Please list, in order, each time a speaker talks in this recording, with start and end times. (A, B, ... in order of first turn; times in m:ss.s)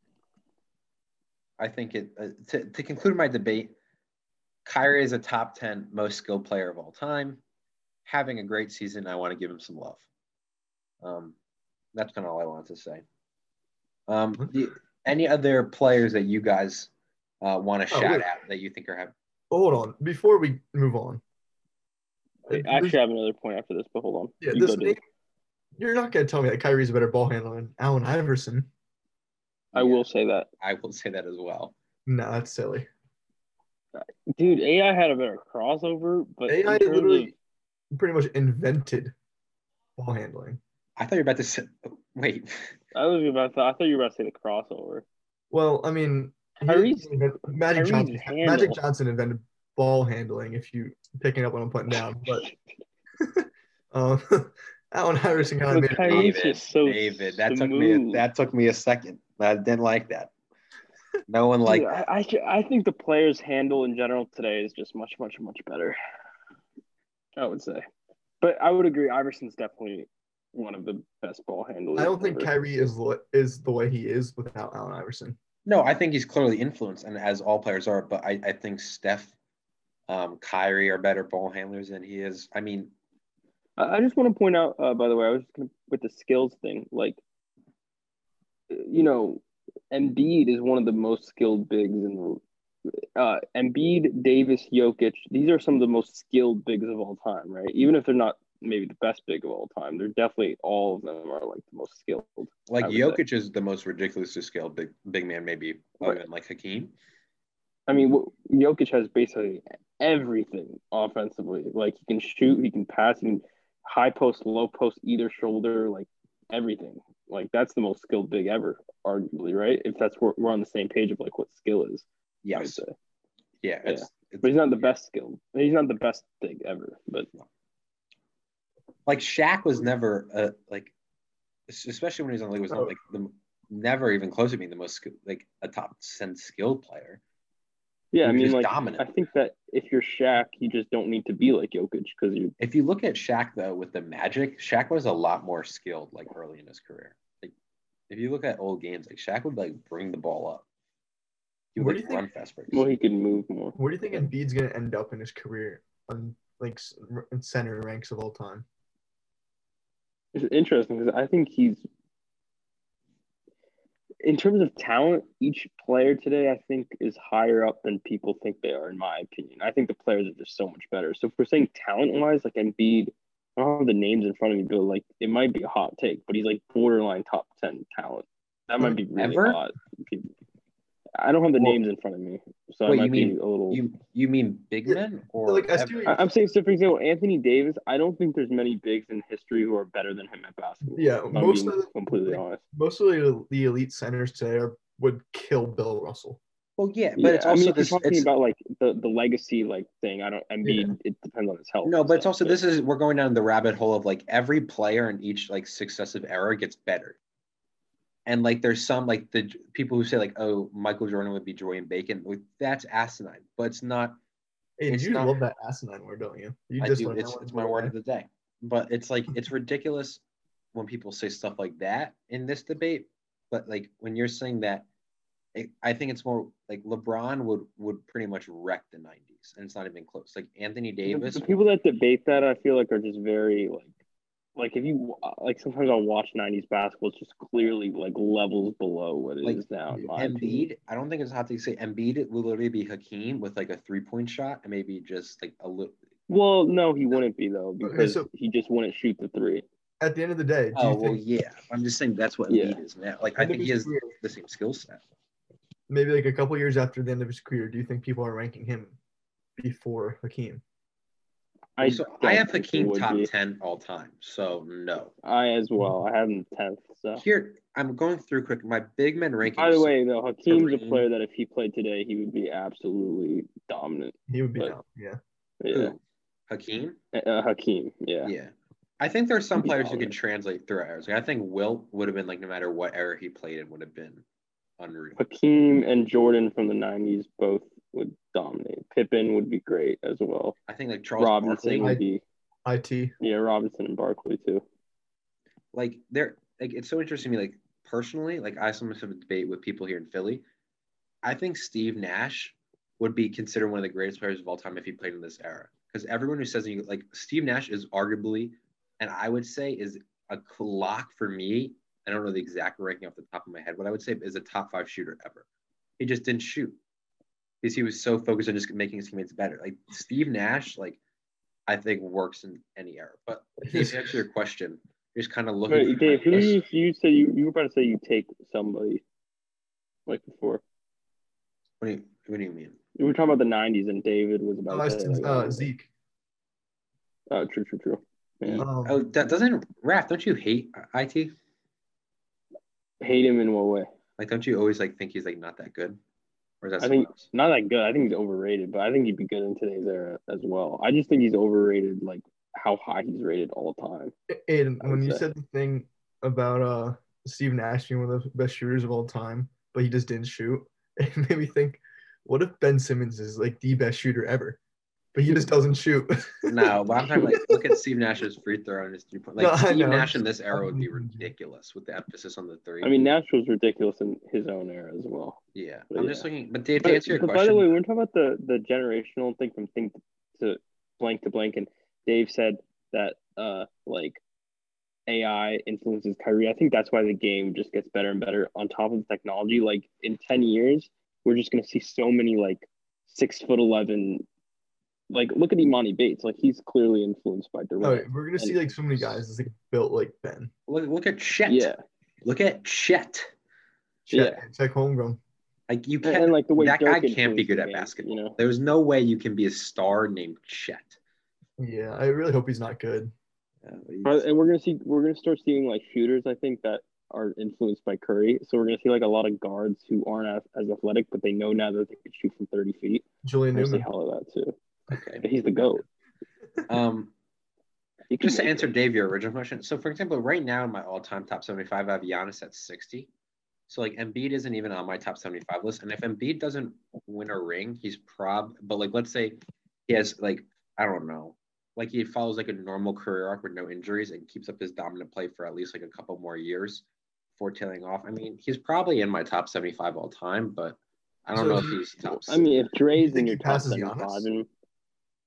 0:01.6-0:03.7 A
0:04.7-0:07.4 A
0:08.1-0:10.0 A
0:11.0-0:11.4 A
0:11.9-0:13.0 A
0:14.1-0:19.1 A
0:17.9-0:18.2 B
0:19.5-0:21.2 B
0:22.5-0:25.0 C
0:22.5-0:23.0 B
0:24.4-0:25.0 B
0:25.8-0:28.7 B
0:29.7-0:30.0 A
0:29.7-0:30.5 C
0:30.6-0:31.7 A
0:32.1-0:32.9 B
0:34.0-0:37.3 C
0:36.5-0:37.3 B
0:37.9-0:39.1 B
0:40.0-0:40.6 B
0:41.0-0:42.8 A
0:42.9-0:45.0 C
0:45.5-0:52.5 B
0:46.6-0:47.2 C
0:47.7-0:48.8 C
0:53.2-0:56.3 B
0:55.7-0:58.2 C
0:56.0-1:00.3 A
1:01.3-1:02.0 A
1:01.7-1:06.0 C
1:07.4-1:07.8 C
1:08.4-1:12.5 C
1:12.0-1:15.4 B
1:15.7-1:19.4 A
1:20.1-1:22.9 A
1:23.8-1:27.2 C
1:28.7-1:32.4 C
1:33.2-1:43.2 C
1:42.7-1:46.9 A
1:47.9-2:02.9 C
2:02.4-2:02.8 A
2:03.6-2:04.9 A
2:03.8-2:07.3 C
2:09.1-2:10.9 A
2:11.7-2:17.2 A
2:18.1-2:22.5 C
2:18.2-2:19.1 A
2:22.6-2:27.5 A
2:28.1-2:30.6 A
2:31.7-2:32.9 A
2:31.8-2:32.2 B
2:32.7-2:34.2 C
2:33.8-2:38.7 B
2:40.4-2:41.8 C
2:44.2-3:00.3 C
2:59.2-2:59.6 A
3:01.2-3:03.8 C
3:02.9-3:06.2 A
3:04.9-3:06.2 B
3:06.1-3:12.6 C
3:10.9-3:16.4 B
3:16.8-3:18.3 A
3:17.2-3:22.6 C
3:20.6-3:20.9 B
3:21.8-3:27.2 A
3:28.3-3:34.2 A
3:34.8-3:38.0 B
3:34.9-3:35.4 A
3:36.8-3:40.2 A
3:40.7-3:44.9 A
3:45.5-3:51.6 A
3:51.1-3:53.9 C
3:54.6-4:00.5 C
3:59.9-4:00.7 B
4:00.2-4:06.0 A
4:06.3-4:09.6 C
4:07.8-4:08.3 B
4:10.0-4:11.2 B
4:10.8-4:15.0 A
4:12.5-4:12.8 C
4:13.4-4:14.2 B
4:15.9-4:19.0 B
4:19.6-4:20.6 B
4:21.8-4:23.3 C
4:21.8-4:25.1 A
4:25.2-4:27.2 C
4:27.2-4:29.9 A
4:29.6-4:34.8 C
4:30.5-4:31.1 A
4:34.3-4:35.2 B
4:35.6-4:35.9 C
4:35.7-4:37.0 A
4:37.1-4:38.3 C
4:38.2-4:44.2 A
4:39.6-4:40.1 C
4:44.8-4:45.2 A
4:45.2-4:50.6 C
4:50.7-4:52.0 A
4:51.2-4:52.2 C
4:52.6-4:53.1 B
4:53.2-4:54.6 C
4:55.7-5:00.4 A
5:01.2-5:15.4 A
5:16.0-5:16.8 A
5:17.6-5:21.0 A
5:21.7-5:26.6 A
5:23.6-5:24.2 B
5:25.7-5:29.0 C
5:30.1-5:30.6 C
5:31.8-5:32.8 A
5:33.0-5:35.7 C
5:34.7-5:35.9 B
5:37.3-5:38.6 C
5:38.5-5:41.3 A
5:38.6-5:39.0 B
5:43.0-5:43.9 C
5:44.2-5:46.0 A
5:46.6-5:47.3 A
5:46.8-5:54.1 C
5:54.3-6:04.6 B
5:54.8-5:55.2 C
6:05.1-6:07.8 B
6:06.4-6:13.1 A
6:09.4-6:11.3 B
6:12.8-6:15.4 C
6:15.6-6:17.7 A
6:15.9-6:16.2 C
6:16.8-6:24.2 C
6:25.1-6:34.2 C
6:35.1-6:38.6 C
6:37.8-6:40.5 B
6:40.7-6:41.7 A
6:41.5-6:41.8 C
6:42.2-6:43.3 A
6:44.1-6:45.2 B
6:44.1-6:44.4 C
6:45.7-6:51.0 A
6:46.0-6:48.4 C
6:51.6-6:53.1 B
6:53.6-6:54.3 A
6:54.0-7:04.6 C
7:03.2-7:03.9 B
7:04.9-7:05.2 A
7:05.2-7:05.8 C
7:06.7-7:07.1 A
7:08.1-7:08.6 C
7:08.2-7:13.1 A
7:13.7-7:26.8 A
7:27.4-7:32.6 A
7:31.3-7:31.8 B
7:32.0-7:34.5 C
7:33.0-7:34.3 B